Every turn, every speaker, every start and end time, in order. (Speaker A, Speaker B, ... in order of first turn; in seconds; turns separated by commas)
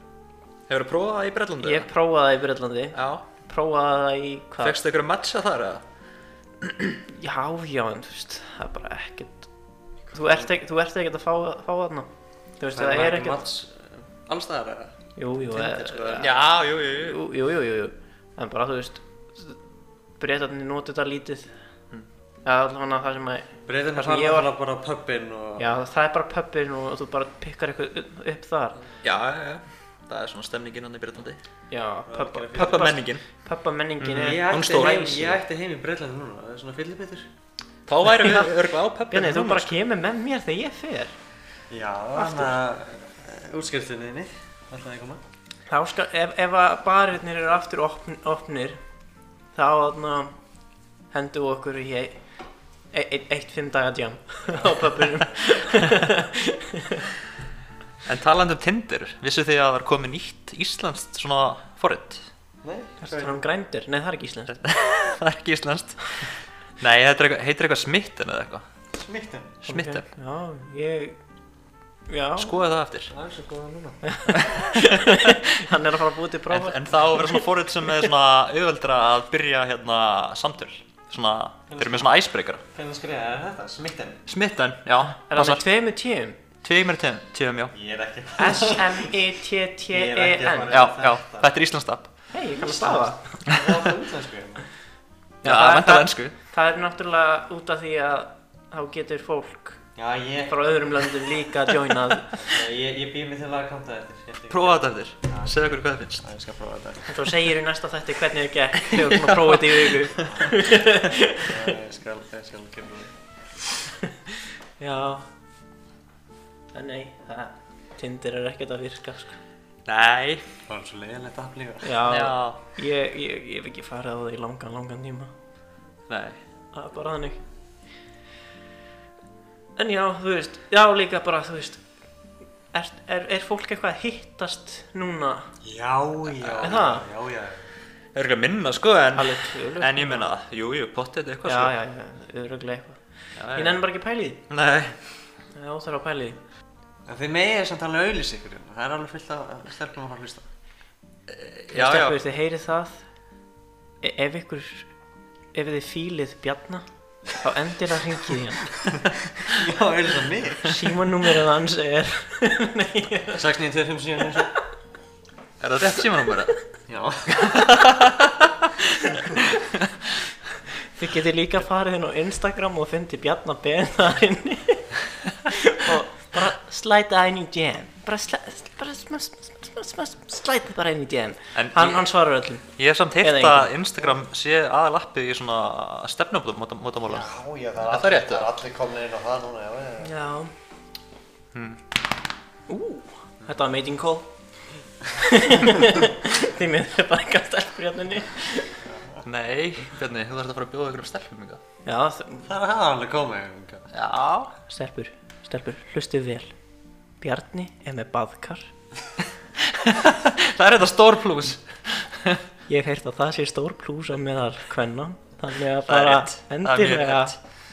Speaker A: 0.7-1.9, Speaker B: 1.6-4.8, Speaker A: 2.9-3.2, Speaker A: 4.6-5.8, Speaker A: 6.6-7.0, Speaker B: 7.1-9.5, Speaker B: 10.1-13.4, Speaker C: 12.7-14.9, Speaker B: 15.2-19.6, Speaker C: 15.5-16.3, Speaker A: 16.1-17.2, Speaker B: 20.2-21.5, Speaker B: 22.4-24.5, Speaker C: 23.7-25.7, Speaker B: 25.6-28.8, Speaker A: 29.0-31.4, Speaker B: 31.7-34.8, Speaker C: 32.1-32.9, Speaker A: 32.5-33.2, Speaker A: 34.0-35.4, Speaker C: 34.1-37.3, Speaker A: 37.9-39.7, Speaker B: 38.2-38.5, Speaker B: 39.1-41.1, Speaker C: 41.7-45.2, Speaker B: 42.1-42.6, Speaker B: 45.7-48.8, Speaker B: 49.5-50.3, Speaker B: 51.1-52.2, Speaker B: 52.9-57.0, Speaker C: 54.5-55.5, Speaker A: 58.0-62.3, Speaker C: 62.6-63.4, Speaker B: 63.0-64.5, Speaker A: 64.5-68.7, Speaker C: 68.9-69.6, Speaker B: 69.7-71.2, Speaker A: 69.7-70.0, Speaker B: 72.1-72.5, Speaker A: 72.4-73.1, Speaker C: 73.1-74.0, Speaker B: 74.0-78.0, Speaker A: 74.3-75.4, Speaker A: 76.5-82.6, Speaker C: 81.7-82.1, Speaker C: 82.7-84.2, Speaker A: 84.3-85.6, Speaker B: 85.3-86.4, Speaker A: 86.6-87.7, Speaker C: 87.7-89.1, Speaker B: 88.4-90.7, Speaker C: 89.9-91.5, Speaker A: 90.7-92.1, Speaker B: 92.3-93.4, Speaker C: 92.6-94.7, Speaker B: 95.4-99.8, Speaker A: 95.4-96.3, Speaker C: 100.0-100.8, Speaker B: 100.5-102.4, Speaker C: 102.3-107.1, Speaker A: 104.5-106.2, Speaker B: 107.1-111.7, Speaker A: 108.9-110.3, Speaker C: 110.3-113.2, Speaker B: 114.8-115.3, Speaker B: 116.7-119.4, Speaker A: 119.8-120.4, Speaker C: 120.7-122.0, Speaker B: 121.8-125.3, Speaker A: 122.0-122.6, Speaker A: 126.1-126.4, Speaker B: 126.7-127.4, Speaker B: 129.8-131.8, Speaker B: 132.7-135.5, Speaker C: 135.6-137.7, Speaker A: 136.4-136.7, Speaker B: 136.6-137.0, Speaker A: 138.1-141.7, Speaker B: 139.1-140.3, Speaker B: 141.4-143.0, Speaker A: 143.3-143.8, Speaker B: 143.5-144.4, Speaker A: 144.5-145.2, Speaker B: 145.5-146.4, Speaker C: 147.1-150.5, Speaker A: 151.3-152.2, Speaker B: 151.7-153.1, Speaker B: 154.0-154.9, Speaker B: 155.5-158.7, Speaker C: 159.4-160.8, Speaker B: 160.6-163.4, Speaker C: 163.3-164.5, Speaker A: 165.6-166.6, Speaker C: 166.9-167.6, Speaker A: 167.3-169.8, Speaker B: 170.9-182.7, Speaker A: 181.5-182.1, Speaker A: 182.7-187.3, Speaker B: 183.2-184.1, Speaker C: 187.1-190.1, Speaker A: 187.8-188.5, Speaker B: 190.0-190.5, Speaker A: 191.5-191.8, Speaker B: 192.7-194.3, Speaker B: 195.1-198.8, Speaker C: 198.8-199.2, Speaker A: 199.2-201.6, Speaker B: 201.8-202.5, Speaker C: 202.4-203.9, Speaker A: 203.9-204.5, Speaker B: 204.7-206.5, Speaker B: 207.2-208.7, Speaker A: 209.6-212.4, Speaker B: 212.7-217.3, Speaker A: 215.9-217.4